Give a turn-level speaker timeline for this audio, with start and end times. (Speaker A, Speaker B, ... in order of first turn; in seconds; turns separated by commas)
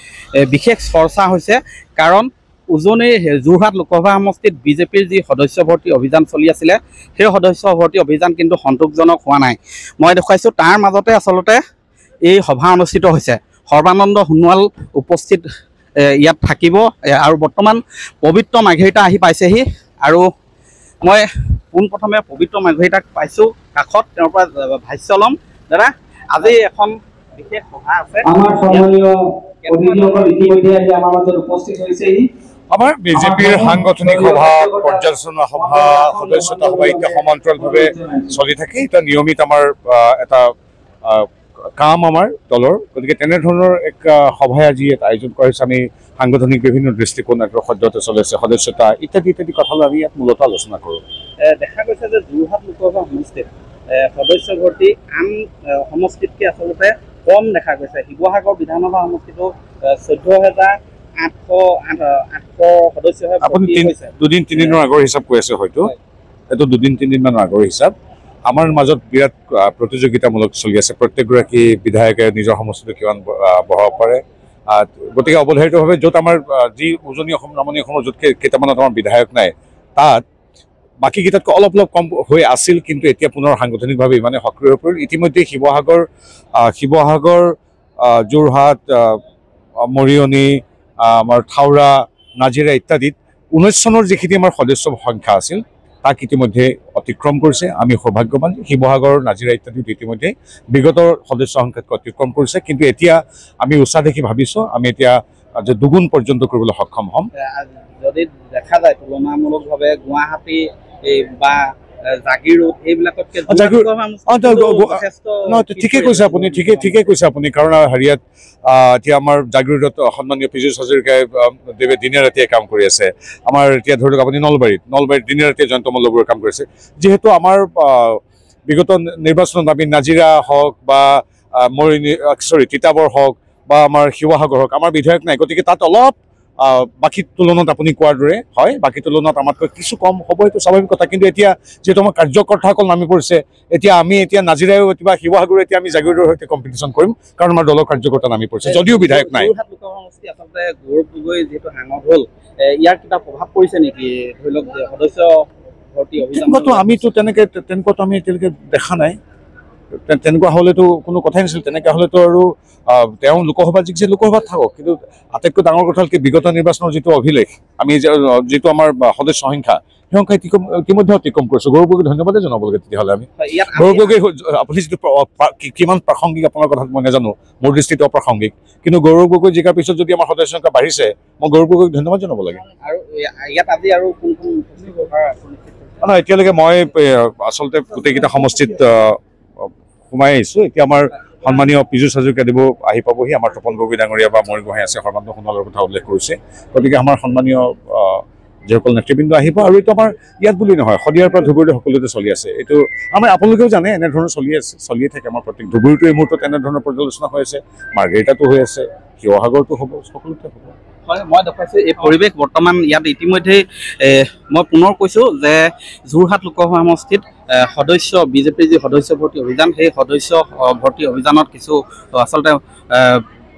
Speaker A: 0.4-11.6, Speaker A: 12.2-15.4, Speaker A: 16.0-20.2, Speaker A: 21.0-28.9, Speaker B: 28.2-32.3, Speaker A: 29.6-30.7, Speaker C: 32.7-40.5, Speaker B: 33.1-35.0, Speaker B: 35.5-38.3, Speaker C: 41.0-51.0, Speaker A: 51.4-64.8, Speaker C: 63.4-65.9, Speaker C: 66.5-67.9, Speaker C: 68.5-80.2, Speaker C: 81.0-86.0, Speaker C: 86.6-89.2, Speaker C: 89.9-107.3, Speaker A: 107.4-116.9, Speaker C: 113.5-149.5, Speaker A: 148.6-156.8, Speaker C: 156.3-159.2, Speaker C: 160.1-182.6, Speaker A: 173.4-174.1, Speaker A: 182.8-186.0, Speaker C: 186.0-210.7, Speaker A: 211.1-223.2